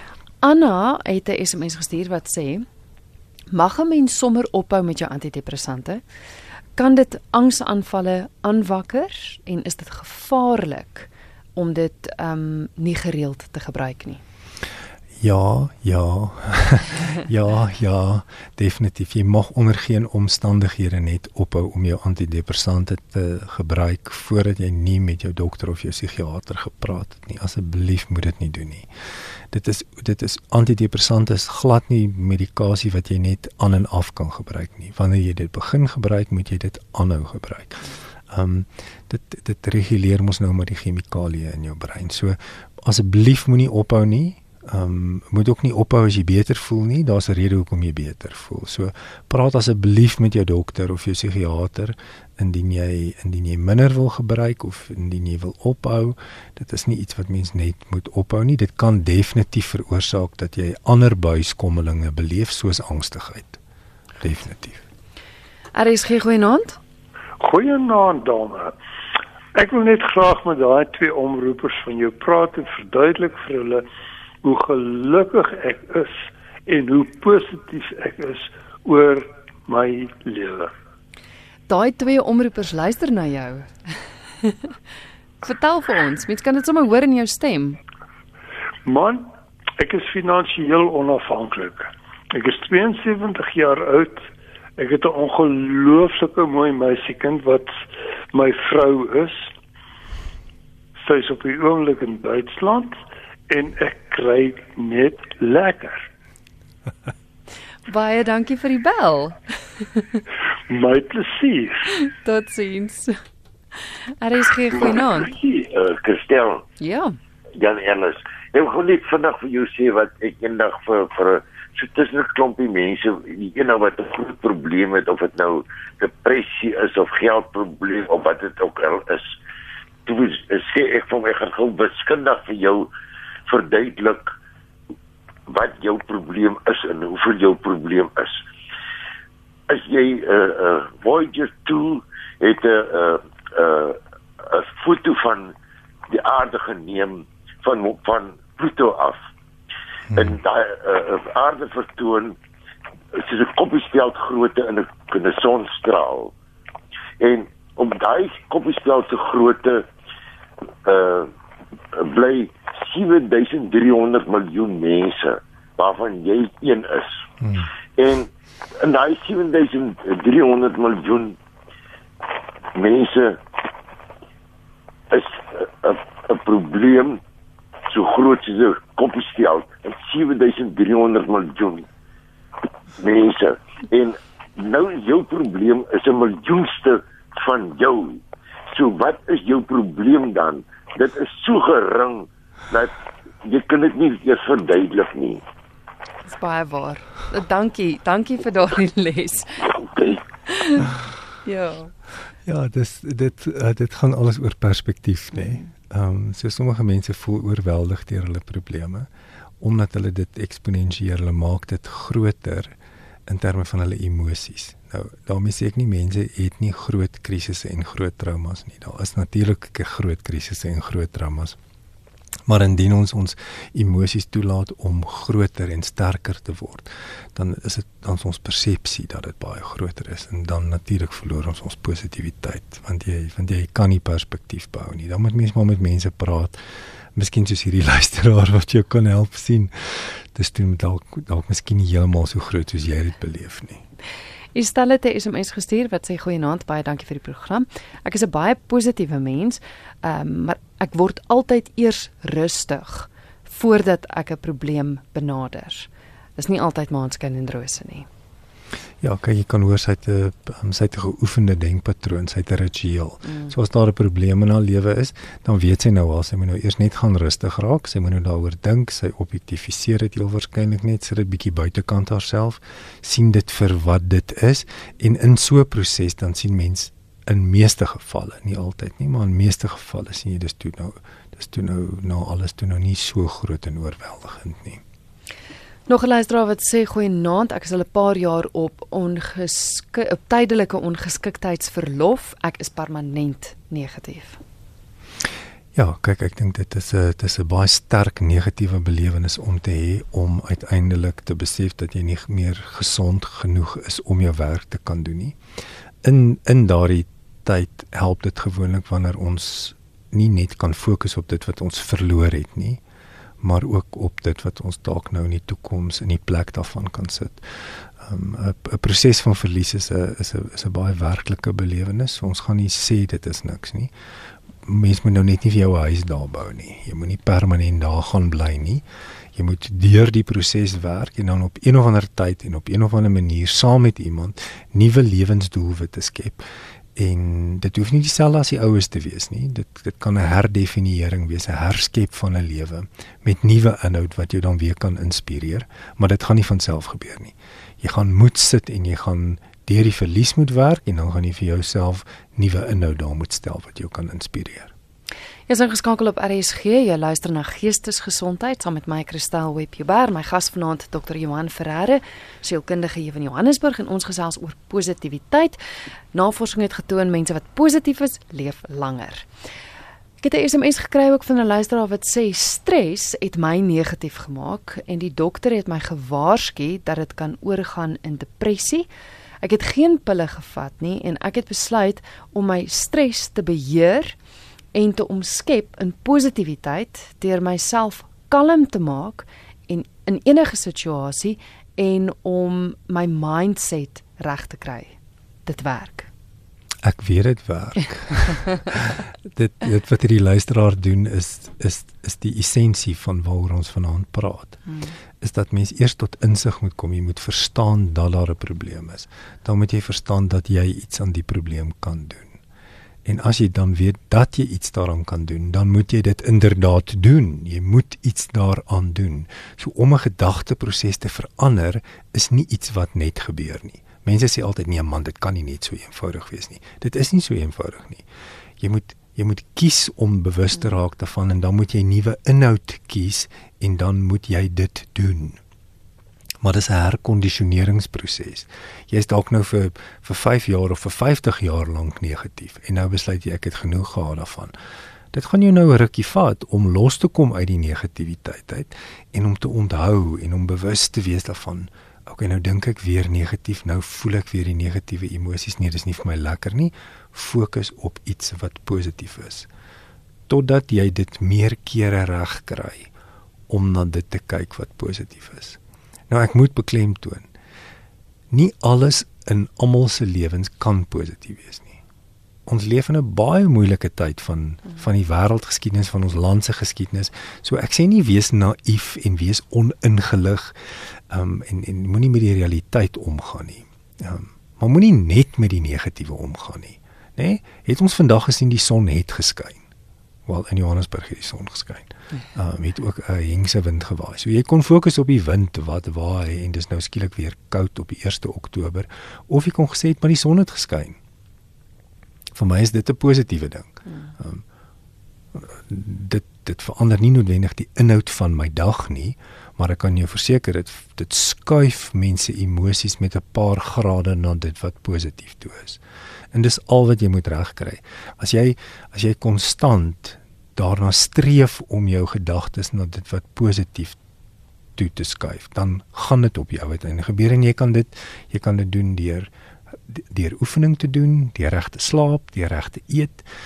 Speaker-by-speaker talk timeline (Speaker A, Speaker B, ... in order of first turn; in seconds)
Speaker A: 0.4-2.6, 3.5-6.0, 6.8-14.2, 65.7-66.8, 81.7-83.7, 85.4-87.8, 107.9-110.2, 112.0-113.2, 113.8-115.3, 116.8-117.2, 196.2-199.7, 200.5-200.9, 201.4-201.9, 205.3-205.7, 244.5-258.1, 263.2-263.5, 285.9-294.4, 355.5-365.6, 366.1-369.2, 370.2-378.9, 379.4-384.2, 384.7-396.1, 404.6-404.9, 503.9-504.1
Speaker B: 15.2-63.6, 64.2-64.8, 150.1-150.4, 167.4-167.7, 202.4-209.1, 209.6-221.6, 222.5-236.6, 237.1-243.8, 259.0-284.8, 295.7-305.4, 306.0-312.8, 313.4-323.9, 324.6-354.7, 396.8-404.6, 405.2-412.4, 413.0-428.0, 428.6-435.4, 436.4-444.5, 445.1-459.5, 460.3-462.9, 463.5-467.3, 468.3-471.8, 472.4-480.6, 481.1-489.6, 490.2-501.0, 502.3-504.4, 505.3-515.8, 516.3-524.0, 524.8-529.3, 529.9-533.3
Speaker C: 67.4-68.7, 69.5-73.8, 74.4-80.7, 88.8-97.8, 98.3-99.5, 101.0-106.1, 110.7-111.8
Speaker D: 115.4-116.6, 117.6-129.3, 130.1-132.9, 133.5-134.3, 135.5-138.4, 139.7-145.5, 146.1-149.2, 150.1-152.3, 153.1-156.3, 157.2-159.9, 160.8-161.3, 161.9-167.2, 167.9-171.4, 172.7-173.4, 175.1-177.2, 177.9-181.9, 183.0-195.4